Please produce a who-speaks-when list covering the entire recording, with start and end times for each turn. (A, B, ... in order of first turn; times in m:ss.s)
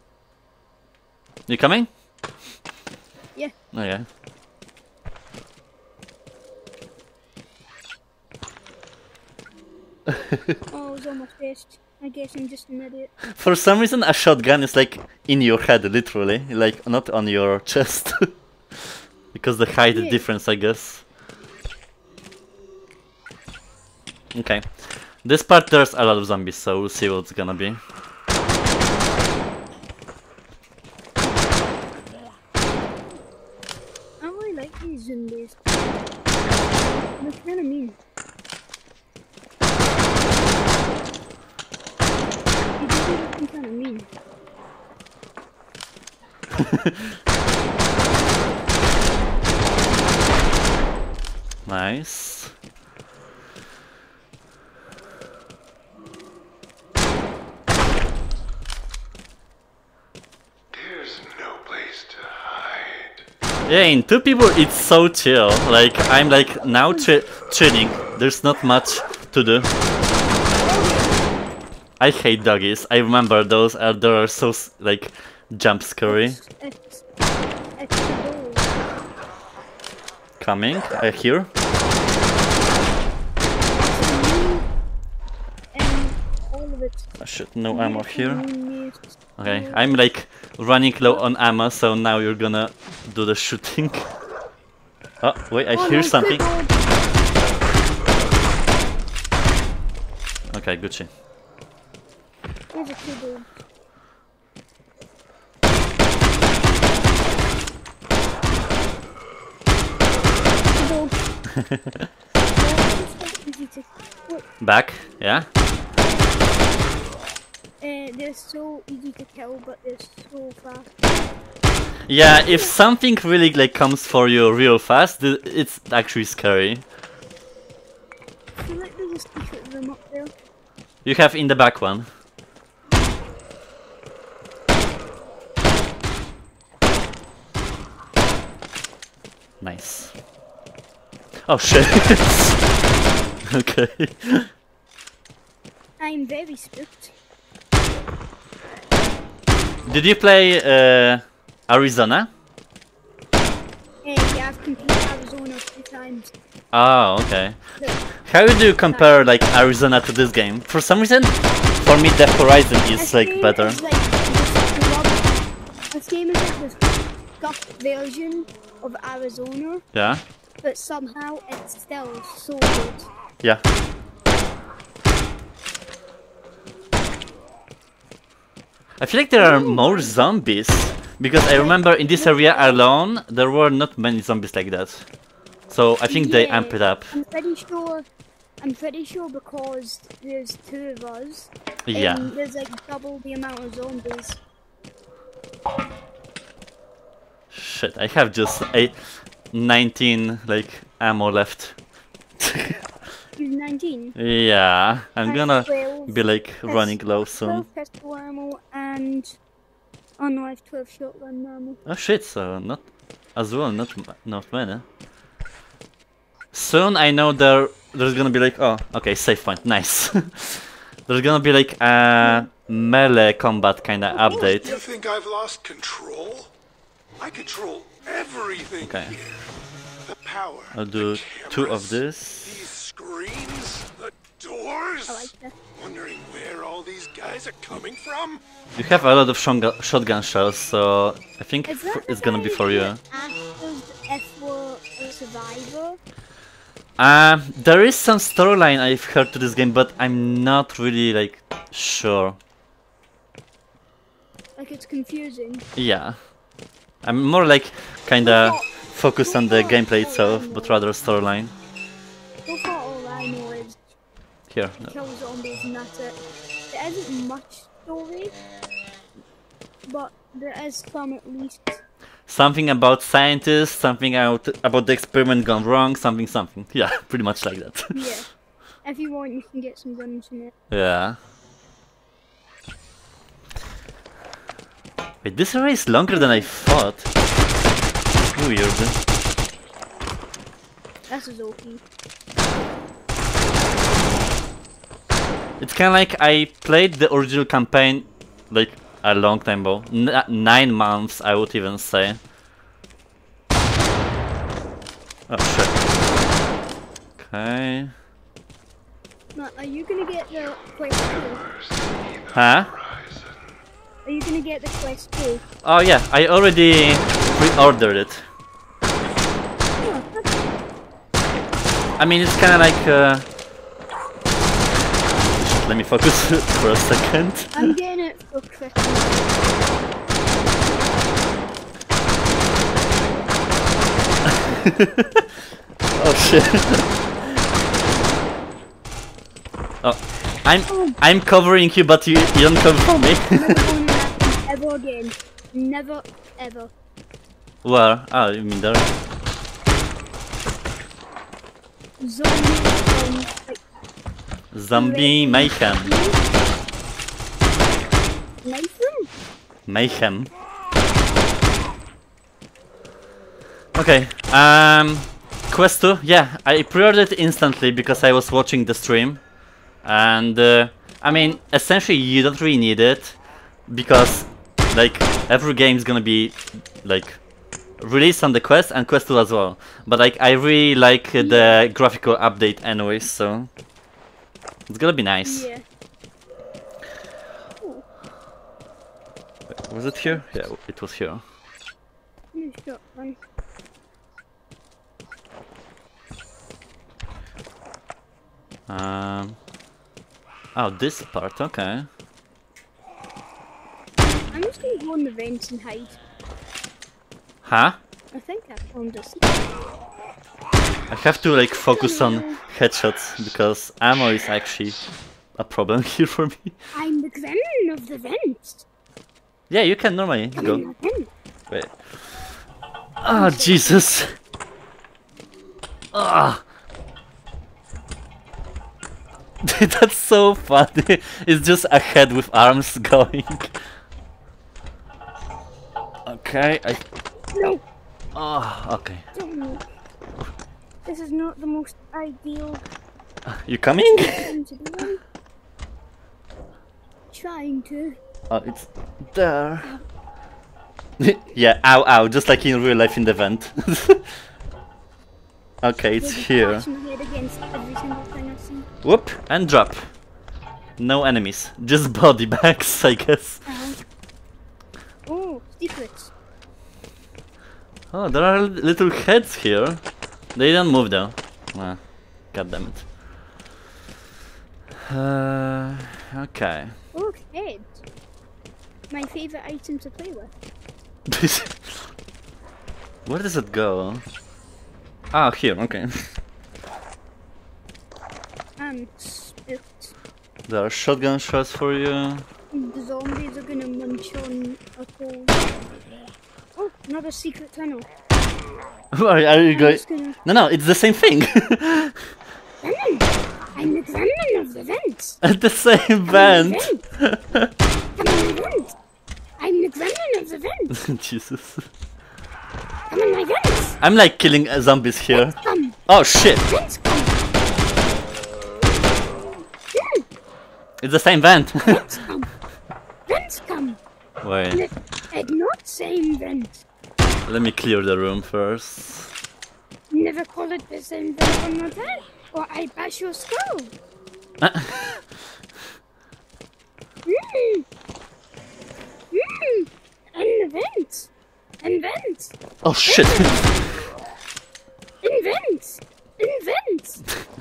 0:01.5-0:01.9 A
0:03.7-0:04.1 A
0:10.7-0:13.1 B
0:13.4-0:18.3 A
0:19.3-0:21.0 A
0:19.9-0:20.2 B
0:24.3-0:27.8 A
0:34.2-0:35.6 B
0:37.2-0:38.0 B
0:42.8-0:44.1 B
0:46.6-0:47.0 A
0:51.6-0:52.5 A
1:00.7-1:03.2 C
1:03.7-1:09.7 A
1:12.0-1:16.4 A
1:16.0-1:17.0 B
1:17.8-1:18.7 B
1:20.4-1:21.5 A
1:23.7-1:24.6 B
1:25.7-1:27.1 B
1:27.2-1:28.4 A
1:27.7-1:29.9 B
1:29.4-1:34.1 A
1:35.2-1:36.4 A
1:35.7-1:36.8 B
1:40.5-1:41.1 A
1:42.7-1:43.6 B
1:50.8-1:51.2 B
1:52.5-1:54.4 B
1:54.6-1:55.5 A
1:57.8-2:00.9 B
2:02.1-2:06.8 A
2:02.4-2:02.8 B
2:08.6-2:10.3 B
2:11.0-2:12.1 A
2:19.6-2:20.1 A
2:21.5-2:22.6 A
2:23.5-2:24.5 A
2:26.0-2:27.1 B
2:29.9-2:32.3 A
2:34.0-2:36.3 B
2:36.7-2:37.6 A
2:38.2-2:43.8 A
2:38.9-2:39.2 B
2:43.0-2:45.4 B
2:45.9-2:49.8 B
2:49.9-2:50.2 A
2:50.6-2:53.1 B
2:59.0-3:05.1 A
2:59.4-3:00.1 B
3:01.4-3:02.8 B
3:05.7-3:07.1 A
3:06.1-3:08.0 B
3:08.6-3:14.4 B
3:11.9-3:12.3 A
3:17.5-3:21.8 A
3:22.4-3:22.8 A
3:23.4-3:24.1 B
3:24.2-3:27.6 A
3:25.2-3:29.4 B
3:30.2-3:31.8 B
3:31.9-3:34.8 A
3:36.5-3:44.7 A
3:42.2-3:42.5 B
3:44.1-3:44.9 B
3:44.6-3:46.5 C
3:47.2-3:49.4 C
3:48.8-3:49.2 A
3:50.0-3:58.4 C
3:50.7-3:52.6 A
3:55.1-3:55.5 B
3:58.8-4:03.0 A
4:01.6-4:06.0 B
4:07.0-4:12.4 A
4:14.6-4:15.6 B
4:15.8-4:16.2 A
4:17.0-4:21.5 A
4:18.2-4:20.8 B
4:22.4-4:23.8 B
4:24.5-4:24.9 A
4:24.8-4:26.2 B
4:26.7-4:28.3 B
4:29.9-4:31.8 B
4:32.3-4:38.0 A
4:37.9-4:38.3 B
4:38.8-4:40.5 B
4:40.7-4:41.2 A
4:45.2-4:47.1 A
4:46.1-4:46.5 B
4:48.4-4:49.0 A
4:51.1-4:51.8 B
4:55.6-5:02.2 A
5:05.3-5:05.8 A
5:07.2-5:07.9 A
5:09.3-5:11.5 B
5:11.6-5:13.3 C
5:12.3-5:12.8 A
5:14.0-5:15.4 B
5:15.6-5:18.2 A
5:19.8-5:20.3 B
5:22.0-5:23.2 A
5:25.4-5:27.7 A
5:27.5-5:29.3 B
5:34.4-5:35.2 A
5:36.0-5:36.9 A
5:39.8-5:43.6 A
5:40.7-5:41.0 B
5:43.3-5:46.7 B
5:47.6-5:48.9 A
5:52.0-5:53.6 B
5:54.5-5:55.9 A
5:54.7-5:56.2 B
5:58.4-5:59.1 B
5:59.7-6:00.3 A
6:03.8-6:09.2 A
6:09.8-6:17.2 A
6:11.1-6:11.4 B
6:17.8-6:23.5 A
6:21.2-6:21.6 B
6:24.7-6:25.5 A
6:25.2-6:25.6 B
6:29.5-6:31.2 A
6:30.1-6:30.4 B
6:32.3-6:33.2 B
6:38.7-6:39.4 A
6:40.5-6:41.9 A
6:44.0-6:46.0 B
6:47.4-6:47.8 A
6:48.1-6:49.5 B
6:50.9-6:54.8 A
6:51.5-6:52.4 B
6:55.4-6:56.5 A
6:56.8-6:58.6 B
6:59.5-7:00.6 A
7:00.4-7:01.1 B
7:01.5-7:02.2 A
7:03.0-7:04.1 A
7:03.1-7:03.8 B
7:05.9-7:06.4 A
7:09.4-7:13.5 A
7:16.0-7:16.8 A
7:17.3-7:17.6 B
7:18.1-7:19.0 A
7:19.1-7:19.6 B
7:20.8-7:22.6 B
7:23.3-7:24.3 A
7:23.8-7:25.0 B
7:27.1-7:28.0 B
7:28.3-7:29.7 A
7:31.0-7:34.0 A
7:35.6-7:36.6 A
7:36.0-7:38.7 B
7:38.8-7:39.9 A
7:40.8-7:43.4 A
7:43.4-7:43.8 B
7:45.1-7:46.1 B
7:47.9-7:49.8 A
7:50.4-7:52.9 A
7:54.9-7:56.8 A
7:56.9-7:57.8 B
7:58.9-8:00.3 B
8:01.1-8:01.7 A
8:03.0-8:04.0 A
8:05.1-8:06.1 A
8:08.6-8:09.9 B
8:10.5-8:12.2 A
8:12.5-8:15.5 B
8:16.6-8:17.9 B
8:18.9-8:22.0 A
8:19.5-8:20.2 B
8:22.6-8:25.2 B
8:25.2-8:27.5 A
8:26.1-8:26.8 B
8:28.0-8:28.8 B
8:29.4-8:30.7 B
8:30.7-8:31.6 A
8:32.9-8:33.8 B
8:33.8-8:36.4 A
8:35.1-8:35.8 B
8:36.4-8:37.2 B
8:39.7-8:40.0 B
8:40.8-8:41.9 A
8:41.6-8:42.3 B
8:43.1-8:43.8 B
8:44.2-8:44.6 A
8:44.5-8:46.6 B
8:47.2-8:49.1 A
8:49.9-8:53.7 B
8:54.4-8:55.0 A
8:57.0-8:57.6 B
8:59.1-9:01.1 B
9:01.6-9:03.4 B
9:02.6-9:03.4 A
9:05.0-9:07.0 B